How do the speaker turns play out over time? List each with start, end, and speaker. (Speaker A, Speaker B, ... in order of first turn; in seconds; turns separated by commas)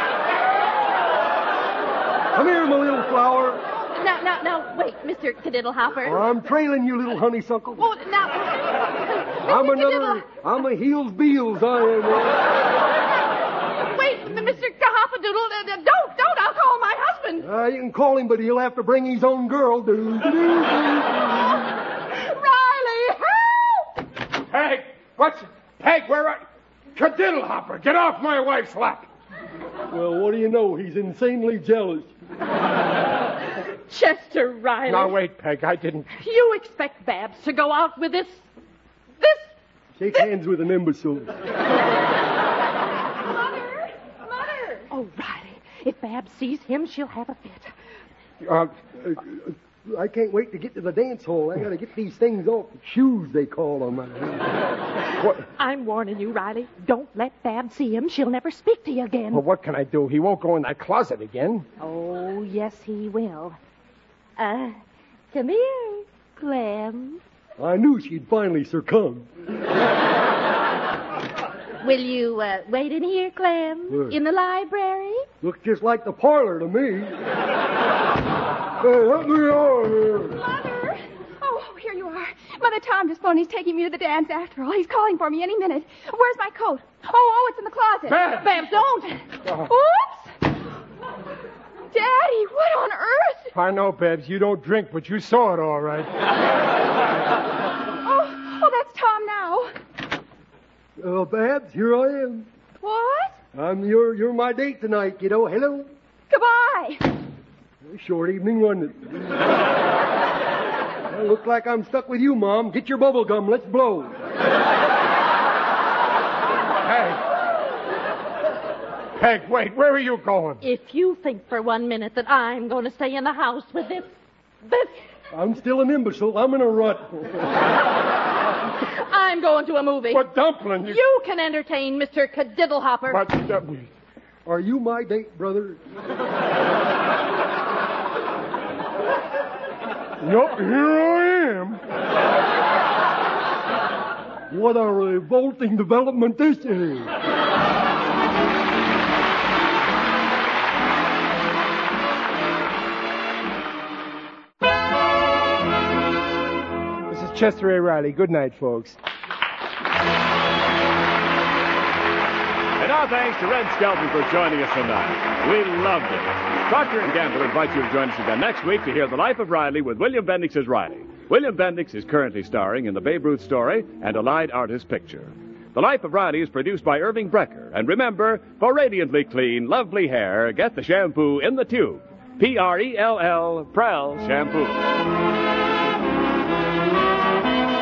Speaker A: 2.3-3.6, Speaker B: 3.8-6.3, Speaker A: 6.0-7.8, Speaker B: 7.8-10.3, Speaker A: 9.4-12.4, Speaker B: 13.8-17.4, Speaker A: 17.4-21.5, Speaker B: 22.1-23.9, Speaker C: 24.4-29.1, Speaker A: 29.9-32.1, Speaker B: 33.9-35.2, Speaker C: 34.9-36.1, Speaker B: 36.2-38.4, Speaker B: 39.2-39.5, Speaker A: 40.0-41.4, Speaker D: 43.5-43.8, Speaker B: 44.9-47.7, Speaker C: 48.4-48.8, Speaker A: 49.0-54.5, Speaker C: 55.2-55.4, Speaker B: 55.5-59.4, Speaker C: 59.3-61.6, Speaker B: 61.8-63.6, Speaker B: 64.4-64.8, Speaker B: 65.3-67.2, Speaker A: 67.6-69.3, Speaker B: 71.8-75.2, Speaker A: 73.9-74.2, Speaker A: 75.4-77.2, Speaker A: 78.8-80.4, Speaker D: 80.3-88.5, Speaker C: 88.1-88.6, Speaker B: 88.2-89.2, Speaker C: 89.4-89.7, Speaker D: 89.6-90.3, Speaker D: 91.9-93.5, Speaker C: 93.5-96.1, Speaker D: 98.0-99.7, Speaker A: 101.0-102.5, Speaker D: 102.8-103.4, Speaker A: 103.5-105.9, Speaker D: 106.3-107.1, Speaker A: 107.8-109.4, Speaker A: 111.1-114.2, Speaker C: 116.8-117.2, Speaker C: 119.1-120.6, Speaker B: 120.6-125.0, Speaker A: 125.3-127.5, Speaker B: 128.8-130.2, Speaker C: 130.1-131.0, Speaker B: 130.8-133.3, Speaker C: 133.1-133.9, Speaker A: 134.4-135.8, Speaker C: 140.2-141.8, Speaker A: 144.5-147.1, Speaker C: 157.1-159.0, Speaker E: 162.8-184.8